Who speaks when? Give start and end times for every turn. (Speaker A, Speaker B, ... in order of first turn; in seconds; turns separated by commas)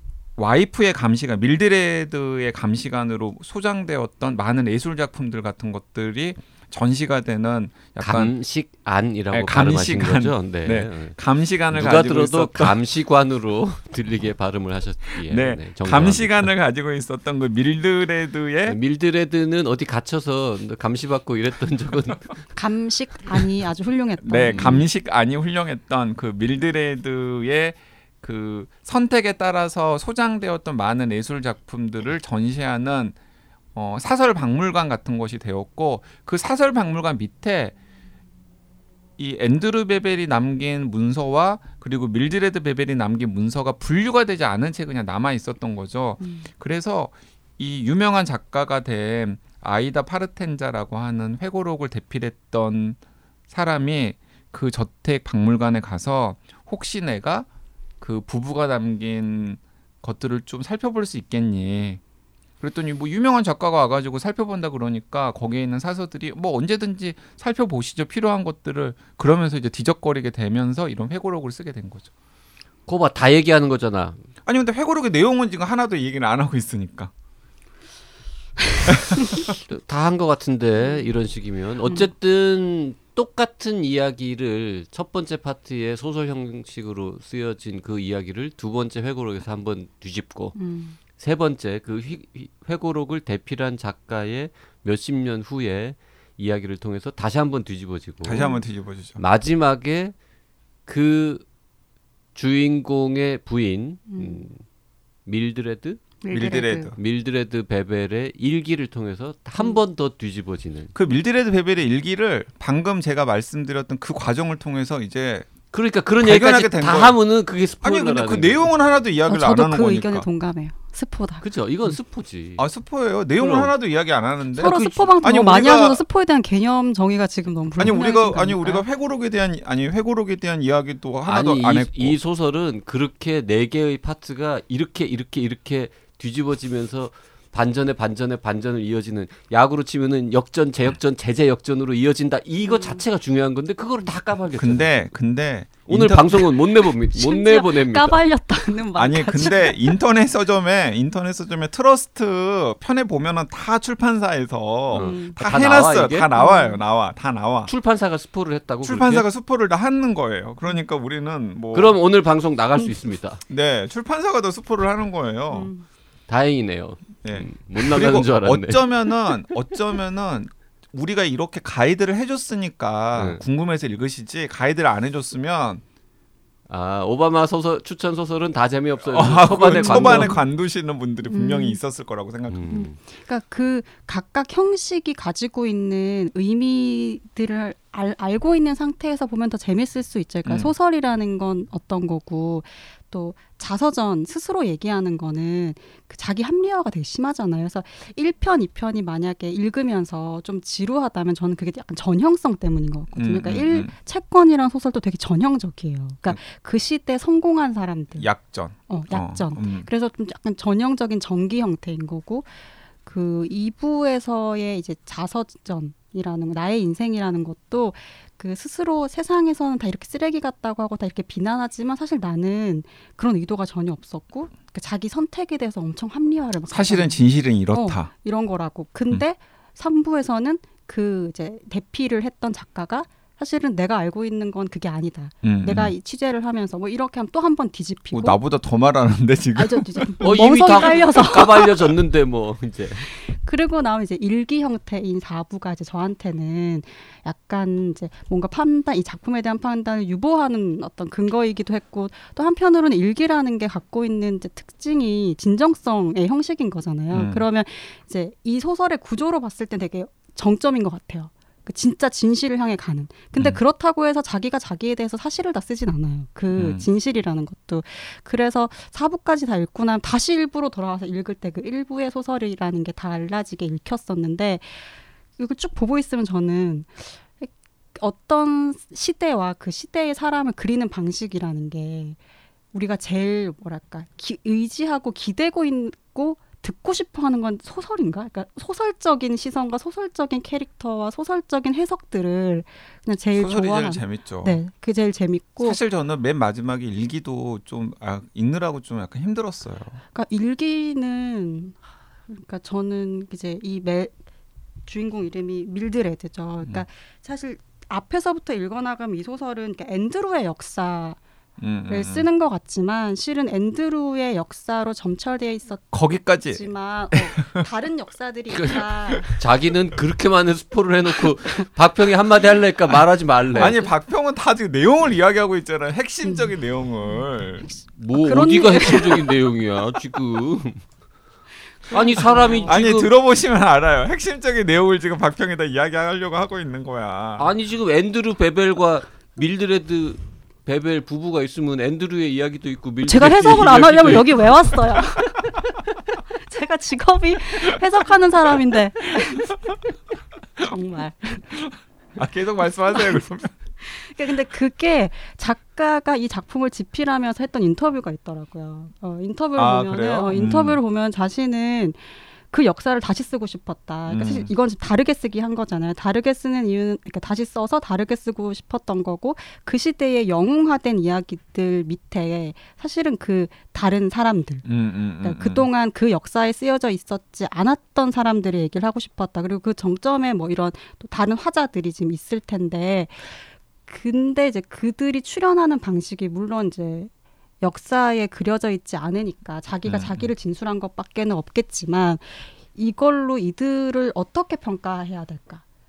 Speaker A: 0.4-8.3, Speaker B: 8.0-11.2, Speaker A: 9.3-12.8, Speaker B: 11.7-16.5, Speaker A: 15.2-18.8, Speaker B: 18.6-22.4, Speaker C: 22.5-24.9, Speaker A: 24.2-33.1, Speaker B: 24.5-24.8, Speaker A: 33.7-37.7, Speaker A: 39.2-53.0, Speaker C: 46.2-46.5, Speaker A: 53.5-57.5, Speaker A: 58.0-62.0, Speaker A: 62.6-72.1, Speaker B: 72.8-74.2, Speaker A: 74.4-77.1, Speaker A: 78.9-79.4, Speaker B: 79.5-90.6, Speaker C: 90.6-91.0, Speaker B: 91.1-98.5, Speaker A: 98.2-99.2, Speaker C: 98.3-98.6, Speaker B: 99.2-100.1, Speaker B: 100.8-101.4, Speaker B: 102.3-104.6, Speaker C: 104.1-104.4, Speaker B: 105.2-106.2, Speaker C: 106.2-107.0, Speaker A: 106.3-107.0, Speaker B: 107.0-110.9, Speaker A: 110.9-115.5, Speaker B: 115.7-118.7, Speaker A: 116.2-117.2, Speaker A: 117.8-120.3, Speaker C: 119.3-121.5, Speaker B: 121.4-122.7, Speaker A: 122.6-126.0, Speaker B: 123.4-123.7, Speaker C: 124.6-128.8, Speaker B: 124.6-125.1, Speaker A: 127.8-132.2, Speaker B: 131.3-144.9, Speaker C: 142.6-143.0, Speaker A: 144.6-146.5, Speaker B: 145.9-148.2, Speaker C: 146.8-150.0, Speaker A: 148.9-157.7, Speaker B: 154.9-156.3, Speaker C: 154.9-155.4, Speaker C: 156.3-156.8, Speaker B: 157.7-159.2, Speaker A: 158.8-161.9, Speaker B: 161.7-163.4, Speaker A: 163.5-165.7, Speaker C: 165.5-165.8, Speaker B: 166.3-168.8, Speaker A: 167.2-175.8, Speaker B: 173.1-173.4, Speaker B: 176.7-180.4, Speaker A: 179.1-182.7, Speaker C: 179.6-180.4, Speaker C: 181.2-181.8, Speaker B: 182.5-183.0, Speaker C: 182.7-208.3, Speaker A: 190.4-190.7, Speaker A: 203.2-203.9, Speaker A: 208.2-209.9, Speaker C: 208.9-238.4, Speaker A: 226.7-228.1, Speaker A: 235.4-235.9, Speaker A: 238.1-240.9, Speaker C: 239.5-241.9, Speaker B: 240.2-243.1, Speaker C: 243.0-282.2, Speaker A: 257.1-257.4, Speaker A: 266.5-266.9, Speaker C: 282.7-295.8, Speaker A: 293.3-294.6, Speaker A: 295.6-300.0, Speaker C: 300.1-304.1, Speaker C: 304.9-311.2, Speaker A: 311.6-312.3, Speaker C: 311.9-319.4, Speaker A: 315.9-317.7, Speaker B: 318.5-323.9, Speaker A: 323.5-327.7, Speaker C: 326.2-326.5, Speaker C: 327.1-329.4, Speaker B: 328.0-330.8, Speaker C: 331.8-332.8, Speaker B: 331.9-333.1, Speaker A: 332.6-337.5, Speaker B: 337.4-344.8, Speaker C: 343.1-349.7, Speaker A: 343.5-343.9, Speaker C: 350.6-351.6, Speaker A: 352.1-353.5, Speaker C: 352.9-353.2, Speaker C: 353.8-374.7, Speaker A: 359.6-360.8, Speaker A: 364.1-364.5, Speaker A: 374.6-375.7, Speaker C: 375.2-395.6, Speaker A: 389.9-390.3